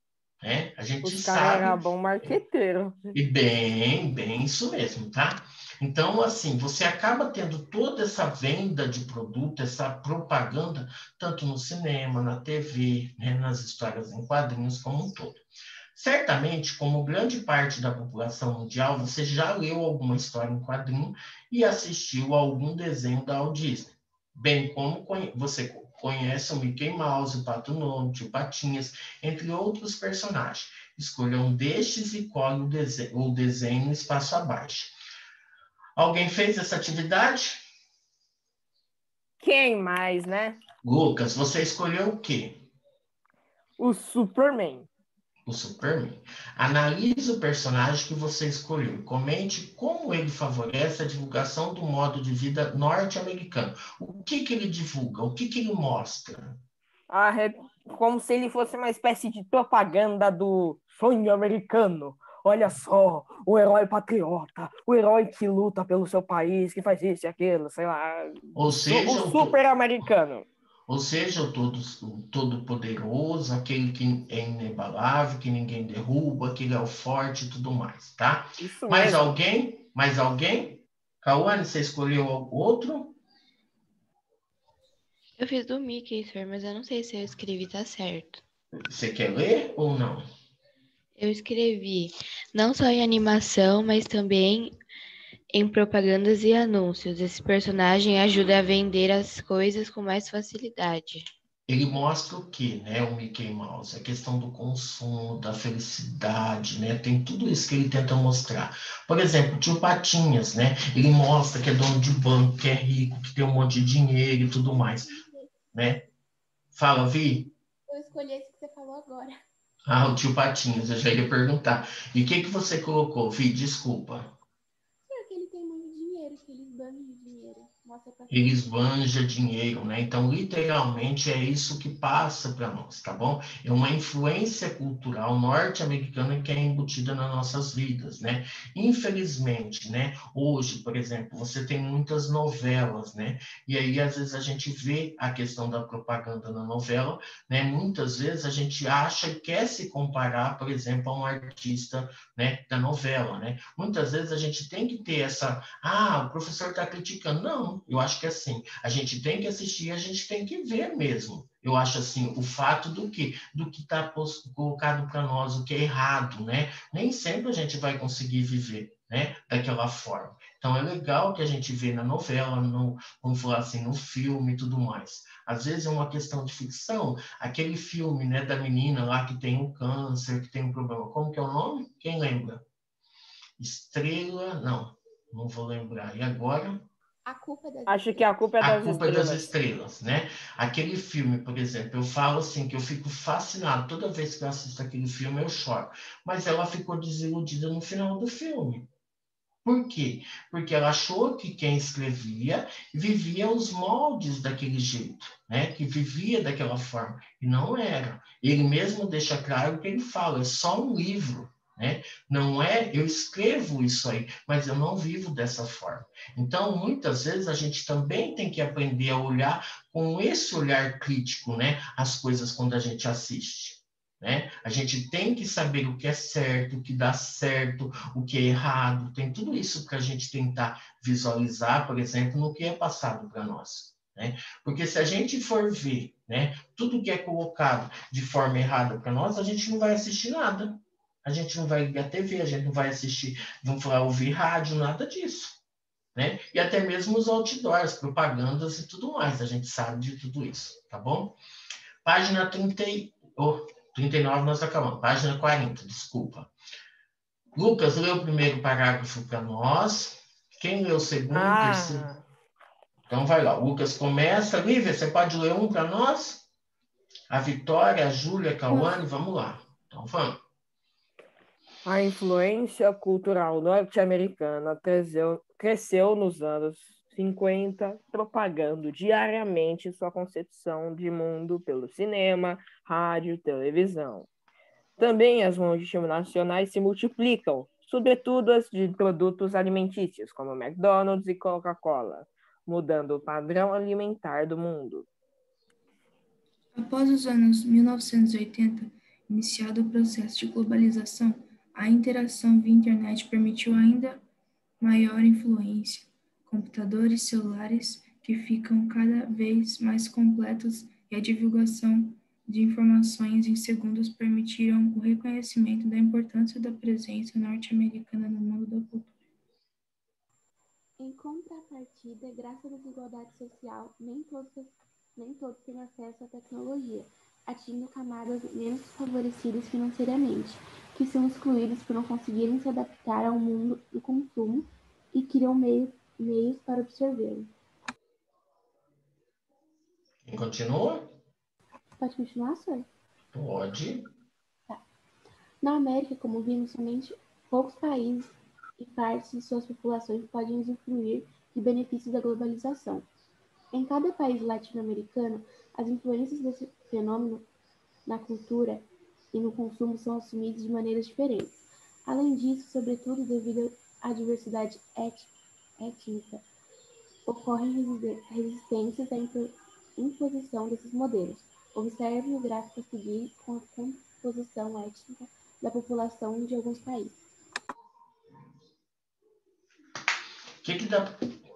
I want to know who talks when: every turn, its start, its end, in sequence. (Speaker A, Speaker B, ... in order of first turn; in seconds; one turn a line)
Speaker A: 0.4-1.8
Speaker B: 1.0-3.1
Speaker A: 3.1-15.4
Speaker A: 15.9-35.0
Speaker A: 36.0-37.6
Speaker B: 39.4-40.6
Speaker A: 40.8-42.6
Speaker B: 43.8-44.9
Speaker A: 45.5-56.6
Speaker B: 57.1-70.5
Speaker A: 68.6-69.6
Speaker A: 70.9-83.2
Speaker B: 78.6-79.3
Speaker C: 85.4-88.4
Speaker A: 88.8-90.3
Speaker C: 91.2-94.7
Speaker C: 95.5-101.3
Speaker A: 101.7-115.1
Speaker D: 114.7-115.6
Speaker A: 115.7-116.0
Speaker A: 116.7-117.5
Speaker D: 117.9-119.3
Speaker A: 119.9-124.3
Speaker D: 125.1-128.6
Speaker A: 128.3-182.6
Speaker A: 183.6-186.9
Speaker D: 187.3-188.3
Speaker B: 187.9-189.5
Speaker A: 188.6-198.9
Speaker A: 199.6-245.6
Speaker A: 246.2-251.4
Speaker A: 252.0-256.5
Speaker A: 257.6-262.1
Speaker B: 261.3-262.2
Speaker A: 263.1-266.5
Speaker A: 267.3-270.4
Speaker B: 271.9-284.3
Speaker B: 285.0-295.1
Speaker E: 296.8-304.2
Speaker E: 304.8-319.1
Speaker D: 321.0-337.5
Speaker A: 340.2-341.1
Speaker D: 342.0-342.9
Speaker A: 343.3-344.1
Speaker D: 345.6-353.1
Speaker D: 353.7-357.5
Speaker D: 358.1-366.4
Speaker D: 367.3-377.2
Speaker A: 380.6-381.2